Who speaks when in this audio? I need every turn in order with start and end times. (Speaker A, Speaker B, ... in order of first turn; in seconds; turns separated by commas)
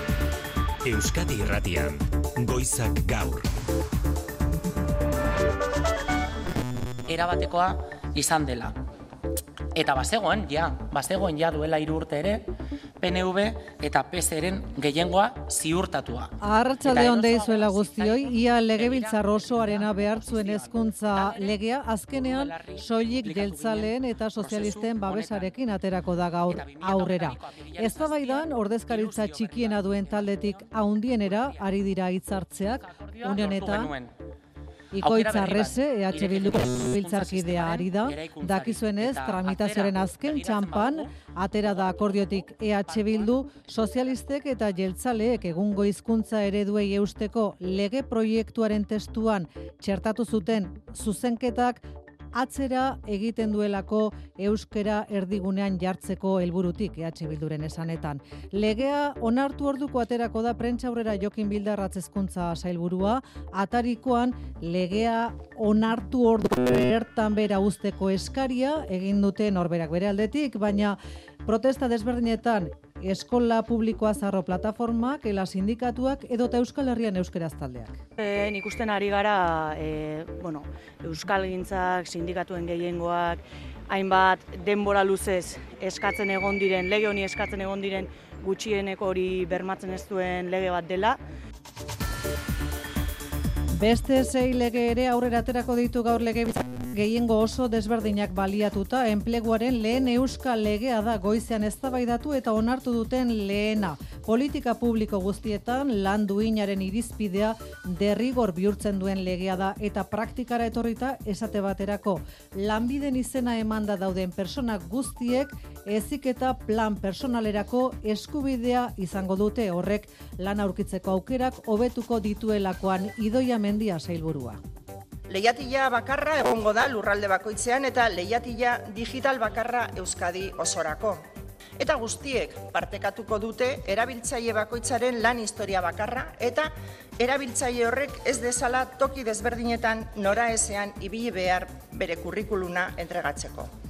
Speaker A: 0.8-3.5, Speaker B: 7.0-8.8, Speaker B: 9.7-12.5, Speaker B: 13.0-21.6, Speaker C: 16.4-33.9, Speaker B: 22.1-25.5, Speaker B: 26.5-31.7, Speaker B: 32.4-34.1, Speaker C: 34.9-51.8, Speaker B: 35.0-41.1, Speaker B: 41.7-44.1, Speaker C: 52.3-78.0, Speaker D: 78.2-91.2, Speaker C: 93.7-124.6, Speaker E: 125.3-131.2, Speaker E: 131.8-143.7